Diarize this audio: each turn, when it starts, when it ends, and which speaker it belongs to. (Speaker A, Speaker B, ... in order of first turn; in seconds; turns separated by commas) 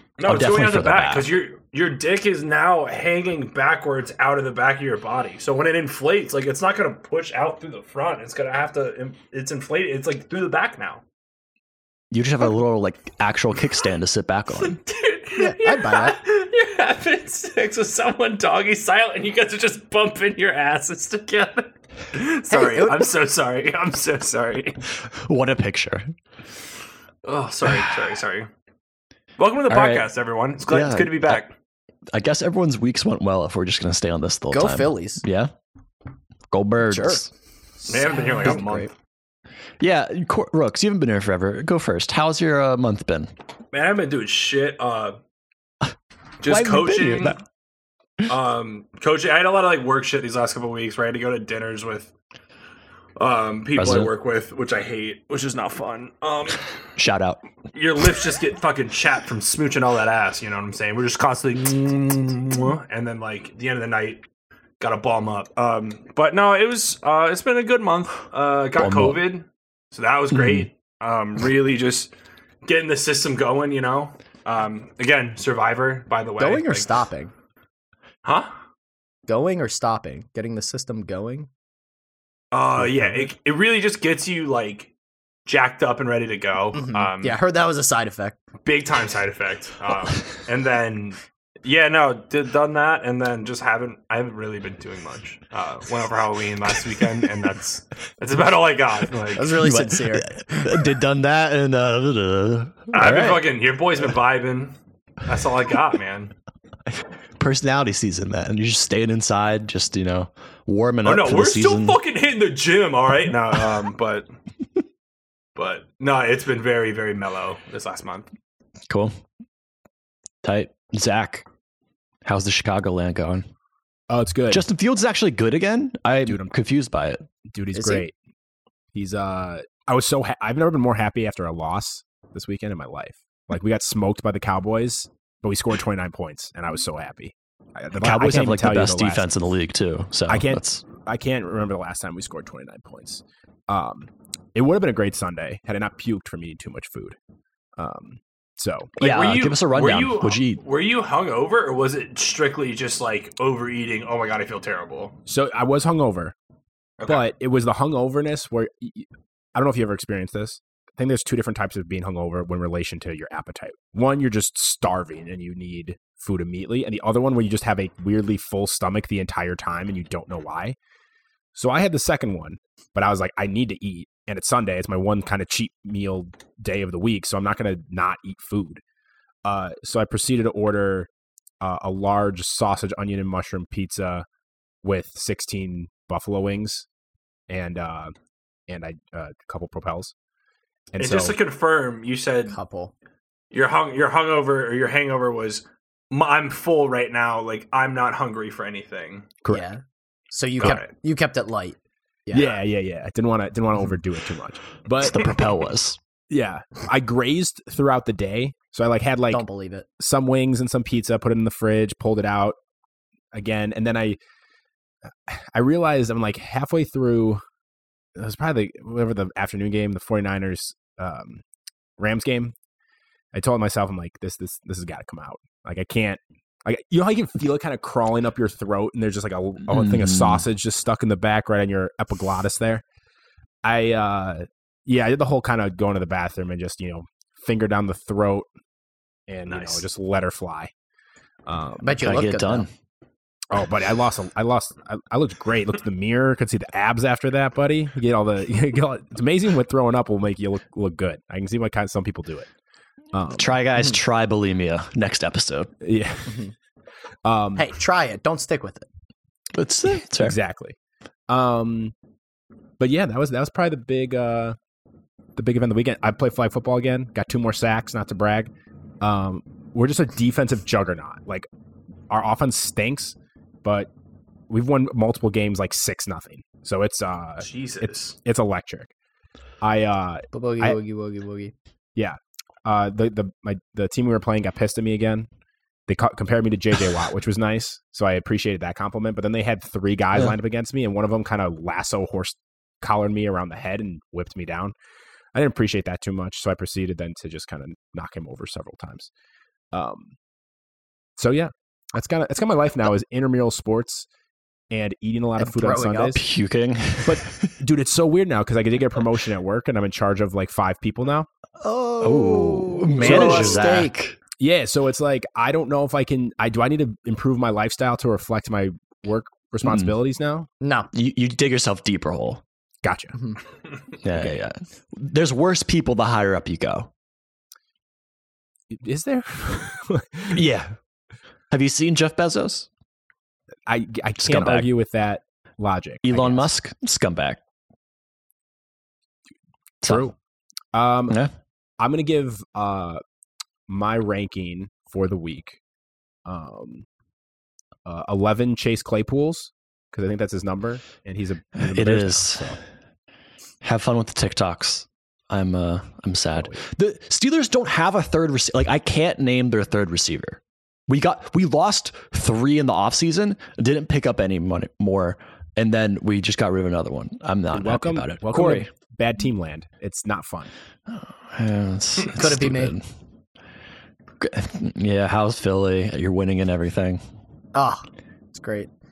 Speaker A: 0.2-11.0, Speaker B: 0.2-1.4, Speaker B: 12.1-14.8, Speaker A: 14.6-24.8, Speaker C: 15.4-16.2, Speaker C: 22.5-23.1, Speaker B: 25.1-26.1, Speaker A: 27.2-28.5, Speaker A: 29.4-31.5, Speaker B: 29.7-30.1, Speaker B: 30.6-31.4, Speaker B: 32.1-35.5, Speaker C: 34.5-35.2, Speaker B: 36.5-37.3, Speaker C: 36.9-37.2, Speaker C: 37.8-38.9, Speaker A: 37.9-38.9, Speaker B: 39.8-43.3, Speaker A: 43.7-45.2, Speaker A: 46.4-47.4, Speaker B: 46.4-47.4, Speaker A: 48.2-52.1, Speaker A: 53.2-56.6, Speaker B: 53.7-54.1, Speaker B: 57.0-57.4, Speaker A: 57.7-64.2, Speaker A: 64.8-72.1, Speaker B: 68.8-69.2, Speaker B: 70.3-70.7, Speaker A: 72.6-77.0, Speaker C: 76.4-77.3, Speaker A: 78.2-78.5, Speaker C: 79.3-81.5, Speaker A: 82.5-84.9, Speaker D: 82.8-83.1, Speaker A: 85.5-87.4, Speaker C: 86.7-88.4, Speaker A: 88.6-99.6, Speaker C: 99.3-100.7, Speaker B: 99.6-103.5, Speaker A: 102.9-104.7, Speaker A: 105.2-106.3, Speaker B: 107.4-112.0, Speaker A: 111.0-114.3, Speaker A: 115.5-118.3, Speaker B: 118.9-119.1, Speaker B: 120.4-121.5, Speaker B: 122.2-123.5, Speaker D: 124.1-124.6, Speaker B: 124.5-127.2, Speaker D: 126.2-126.5, Speaker D: 127.5-128.1, Speaker C: 127.7-128.1, Speaker D: 128.9-139.3, Speaker B: 138.0-140.8, Speaker D: 140.3-147.2, Speaker D: 147.8-148.9, Speaker B: 149.0-150.6, Speaker A: 149.0-155.2, Speaker D: 155.2-156.3, Speaker D: 157.1-170.8, Speaker D: 171.5-178.8, Speaker D: 179.4-181.1, Speaker D: 181.6-184.2, Speaker D: 184.8-186.8, Speaker D: 187.5-188.1, Speaker D: 188.7-190.1, Speaker D: 190.9-191.3, Speaker A: 191.0-192.6, Speaker C: 192.5-192.9, Speaker A: 193.5-199.3, Speaker C: 199.5-202.5, Speaker A: 200.6-200.9, Speaker D: 202.3-205.3, Speaker B: 205.0-206.0, Speaker D: 206.3-209.4, Speaker C: 209.3-209.8, Speaker D: 210.0-212.6, Speaker D: 213.3-214.2, Speaker D: 215.3-217.4, Speaker D: 218.2-221.4, Speaker D: 222.0-222.5, Speaker D: 223.3-232.8, Speaker B: 229.7-230.4, Speaker D: 233.6-238.5, Speaker D: 239.3-240.7, Speaker A: 239.5-239.8, Speaker D: 241.4-242.2, Speaker C: 241.8-242.7, Speaker B: 242.0-242.7, Speaker D: 243.5-252.5, Speaker D: 253.1-253.6, Speaker B: 253.3-255.7, Speaker D: 255.8-256.4, Speaker C: 256.3-256.5, Speaker D: 257.2-257.7, Speaker C: 257.6-258.9, Speaker B: 259.5-260.4, Speaker D: 260.1-260.8, Speaker D: 261.3-261.9, Speaker D: 262.8-264.6, Speaker D: 265.4-271.5, Speaker D: 272.1-273.9, Speaker D: 274.5-278.9, Speaker A: 277.4-278.1, Speaker D: 279.6-280.8, Speaker C: 280.3-281.5, Speaker D: 281.9-285.3, Speaker D: 285.9-294.7, Speaker D: 295.3-299.1, Speaker D: 299.7-300.1, Speaker D: 301.2-304.1, Speaker D: 304.7-306.2, Speaker C: 305.4-306.2, Speaker B: 306.1-307.5, Speaker D: 307.0-311.3, Speaker C: 311.6-313.9, Speaker B: 312.0-314.2, Speaker D: 313.0-313.8, Speaker D: 314.4-320.5, Speaker B: 319.6-319.9, Speaker C: 320.6-320.9, Speaker B: 320.9-322.4, Speaker D: 322.8-323.1, Speaker B: 324.0-326.9, Speaker D: 328.7-330.4, Speaker B: 330.3-330.7, Speaker B: 331.5-332.7, Speaker D: 333.7-336.5, Speaker B: 334.2-334.7, Speaker B: 336.0-337.4, Speaker B: 339.8-340.1, Speaker D: 339.8-340.1, Speaker D: 340.7-341.2, Speaker D: 341.8-343.0, Speaker D: 343.7-345.6, Speaker D: 346.2-346.8, Speaker D: 347.9-352.6, Speaker B: 351.6-352.6, Speaker B: 353.6-368.7, Speaker D: 367.5-370.5, Speaker B: 370.9-372.8, Speaker C: 372.1-372.8, Speaker B: 374.2-377.0, Speaker C: 377.5-378.7